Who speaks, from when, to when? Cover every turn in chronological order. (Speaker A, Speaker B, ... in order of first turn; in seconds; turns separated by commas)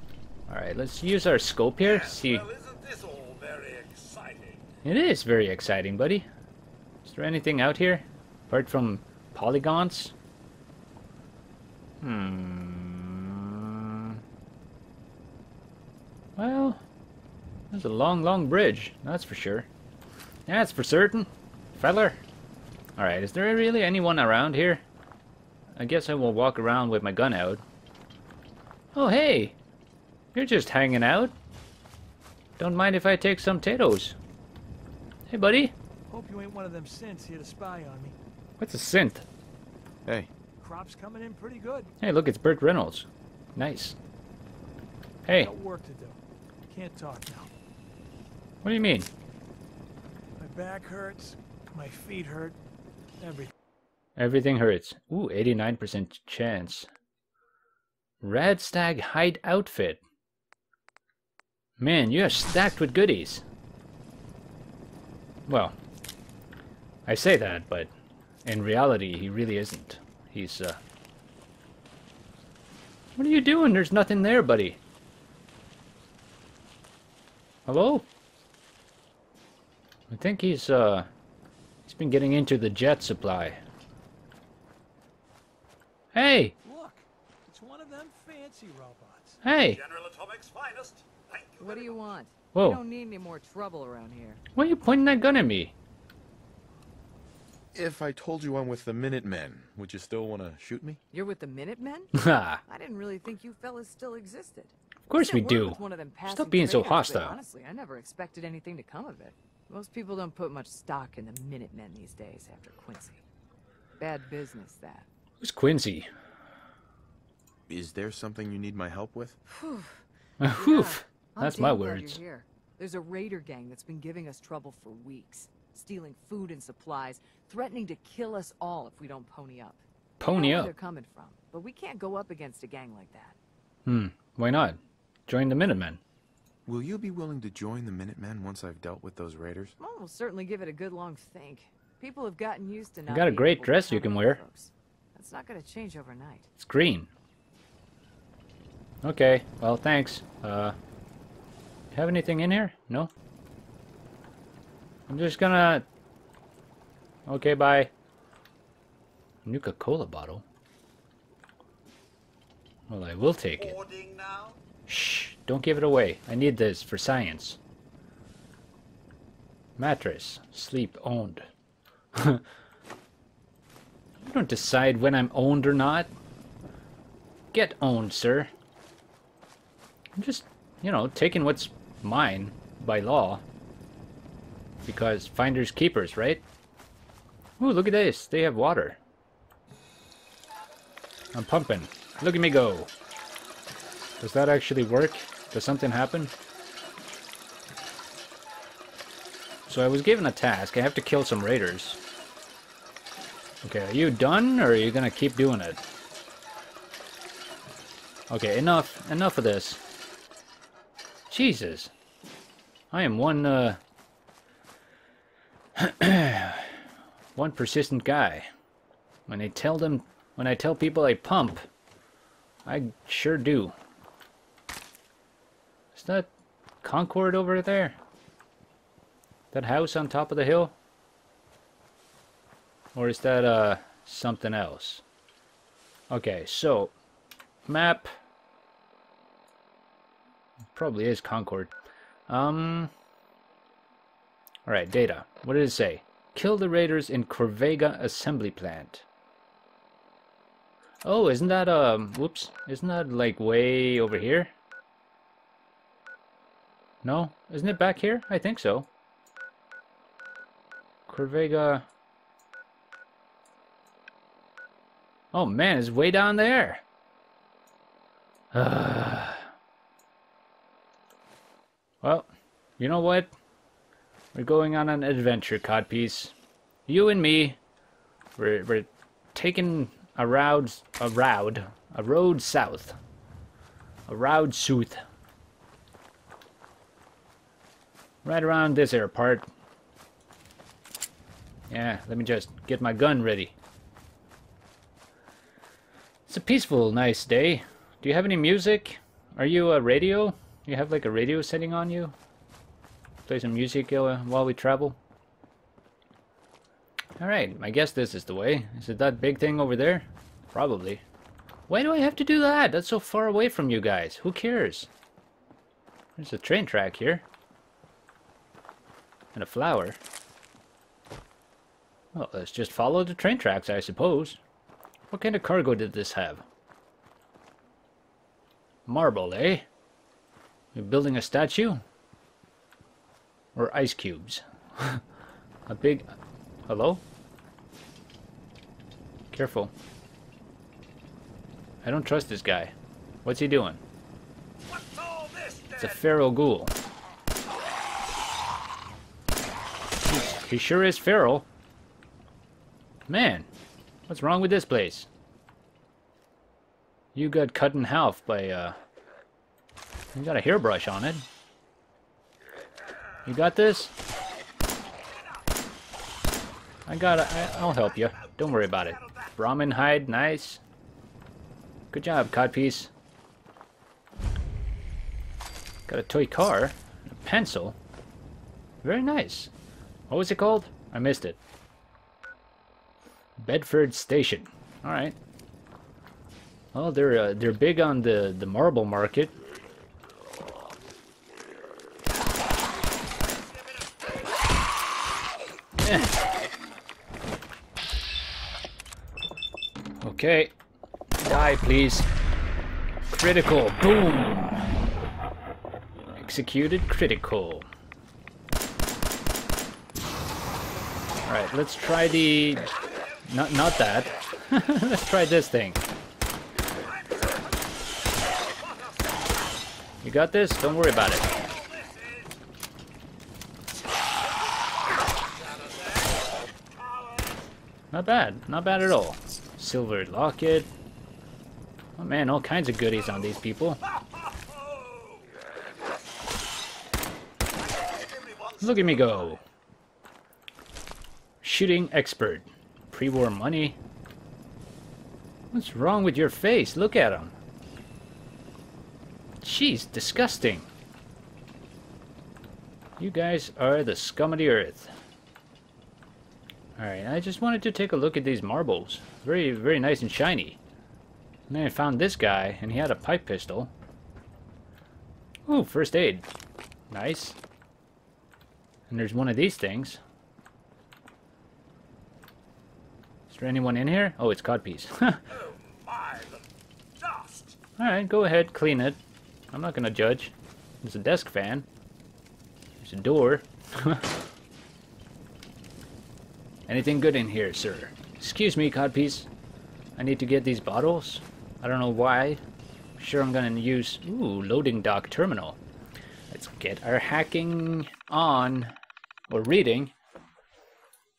Speaker A: 0.5-2.4, Speaker B: 1.8-4.7, Speaker A: 4.8-6.3, Speaker A: 7.0-10.1, Speaker A: 12.0-14.2, Speaker A: 16.4-16.8, Speaker A: 17.7-19.7, Speaker A: 20.5-22.2, Speaker A: 23.0-24.8, Speaker A: 25.8-27.6, Speaker A: 28.9-29.6, Speaker A: 30.3-31.3, Speaker A: 32.6-34.1, Speaker A: 35.3-35.7, Speaker C: 36.1-38.1, Speaker A: 38.6-39.2, Speaker D: 40.0-40.3, Speaker C: 40.6-41.9, Speaker A: 42.0-44.0, Speaker A: 45.2-45.5, Speaker C: 45.3-47.5, Speaker A: 48.6-49.1, Speaker C: 50.4-52.6, Speaker C: 53.2-53.5, Speaker A: 54.2-56.9, Speaker A: 58.2-60.0, Speaker A: 61.8-63.4, Speaker A: 65.5-65.8, Speaker A: 67.0-67.9, Speaker A: 68.5-70.8, Speaker A: 73.2-74.8, Speaker A: 77.7-78.0, Speaker A: 80.1-81.1, Speaker A: 81.8-83.6, Speaker A: 86.1-86.5, Speaker C: 86.6-89.4, Speaker A: 89.4-89.8, Speaker B: 89.6-92.1, Speaker E: 91.6-94.4, Speaker A: 92.5-92.8, Speaker A: 94.5-95.7, Speaker D: 97.7-101.0, Speaker E: 101.1-113.2, Speaker A: 102.1-102.6, Speaker A: 105.1-107.4, Speaker E: 114.0-115.1, Speaker A: 115.4-116.1, Speaker D: 117.7-119.4, Speaker E: 119.5-120.0, Speaker A: 120.4-122.2, Speaker E: 120.5-133.3, Speaker A: 130.2-130.7, Speaker A: 133.8-136.0, Speaker D: 136.7-139.8, Speaker E: 139.8-146.5, Speaker A: 143.1-144.4, Speaker A: 146.6-147.1, Speaker A: 149.0-150.8, Speaker A: 151.9-153.1, Speaker A: 155.1-155.8, Speaker A: 157.3-157.9, Speaker A: 159.4-160.4, Speaker A: 162.9-163.8, Speaker B: 163.6-164.6, Speaker A: 164.9-167.6, Speaker A: 169.8-171.5, Speaker A: 172.1-172.4, Speaker A: 174.2-176.1, Speaker A: 177.5-178.5, Speaker A: 180.2-183.4, Speaker A: 184.8-186.4, Speaker A: 187.6-189.0, Speaker A: 191.3-192.9, Speaker A: 194.2-196.3, Speaker A: 199.7-202.0, Speaker A: 203.6-205.8, Speaker A: 208.3-209.8, Speaker A: 211.3-211.9, Speaker A: 212.9-213.8, Speaker A: 215.8-216.8, Speaker A: 217.3-218.5, Speaker A: 219.3-221.7, Speaker A: 222.7-223.7, Speaker A: 225.9-226.3, Speaker A: 226.8-228.0, Speaker A: 229.5-230.7, Speaker A: 232.9-235.0, Speaker A: 236.1-236.9, Speaker A: 237.7-238.1, Speaker A: 240.7-241.7, Speaker A: 242.3-242.9, Speaker A: 244.7-249.0, Speaker A: 251.0-254.5, Speaker A: 257.0-258.9, Speaker A: 261.1-261.9, Speaker A: 265.3-266.8, Speaker A: 268.5-269.5, Speaker A: 272.0-273.3, Speaker A: 274.3-276.3, Speaker A: 276.9-277.6, Speaker A: 278.4-283.0, Speaker A: 284.1-285.0, Speaker A: 288.2-289.5, Speaker A: 291.7-293.5, Speaker A: 296.3-302.1, Speaker A: 303.3-305.0, Speaker A: 307.2-311.0, Speaker A: 311.7-314.9, Speaker A: 316.2-317.2, Speaker A: 319.3-320.0, Speaker A: 322.1-324.4, Speaker A: 325.1-326.4, Speaker A: 328.9-329.6, Speaker A: 330.7-331.8, Speaker A: 333.5-335.0, Speaker A: 335.7-336.1, Speaker A: 336.6-337.0, Speaker A: 339.3-339.7, Speaker A: 341.8-343.8, Speaker B: 344.7-346.0, Speaker A: 345.8-346.7, Speaker A: 350.1-351.5, Speaker A: 353.1-353.5, Speaker A: 354.1-355.1, Speaker A: 357.1-358.8, Speaker A: 360.1-361.2, Speaker A: 363.2-363.9, Speaker B: 365.1-365.5, Speaker A: 366.9-370.6, Speaker B: 367.3-369.5, Speaker A: 371.9-372.9, Speaker A: 375.9-377.8, Speaker A: 378.8-379.5, Speaker A: 380.1-381.4, Speaker A: 383.4-385.1, Speaker A: 386.7-389.3, Speaker B: 392.7-394.5, Speaker A: 395.8-396.2, Speaker A: 400.0-400.5, Speaker A: 401.2-402.1, Speaker A: 403.1-404.7, Speaker A: 406.1-407.7, Speaker A: 411.2-412.7, Speaker B: 412.7-413.3, Speaker A: 413.2-415.8, Speaker B: 416.7-419.5, Speaker A: 420.0-421.3, Speaker B: 421.2-422.4, Speaker B: 424.2-427.5, Speaker A: 427.9-430.7, Speaker A: 432.0-433.8, Speaker B: 433.8-436.1, Speaker B: 437.5-439.4, Speaker A: 438.6-439.4, Speaker A: 441.4-443.8, Speaker A: 445.5-447.3, Speaker A: 449.4-450.7, Speaker A: 453.0-454.9, Speaker A: 456.8-460.6, Speaker A: 461.5-463.7, Speaker A: 465.5-466.3, Speaker A: 466.9-467.4, Speaker A: 468.9-470.0, Speaker A: 473.3-475.2, Speaker B: 475.3-476.4, Speaker B: 477.0-477.6, Speaker A: 477.8-479.0, Speaker A: 479.5-481.7, Speaker A: 482.8-484.0, Speaker A: 486.7-489.3, Speaker A: 490.0-492.4, Speaker A: 493.0-495.6, Speaker A: 496.3-498.7, Speaker A: 499.3-499.9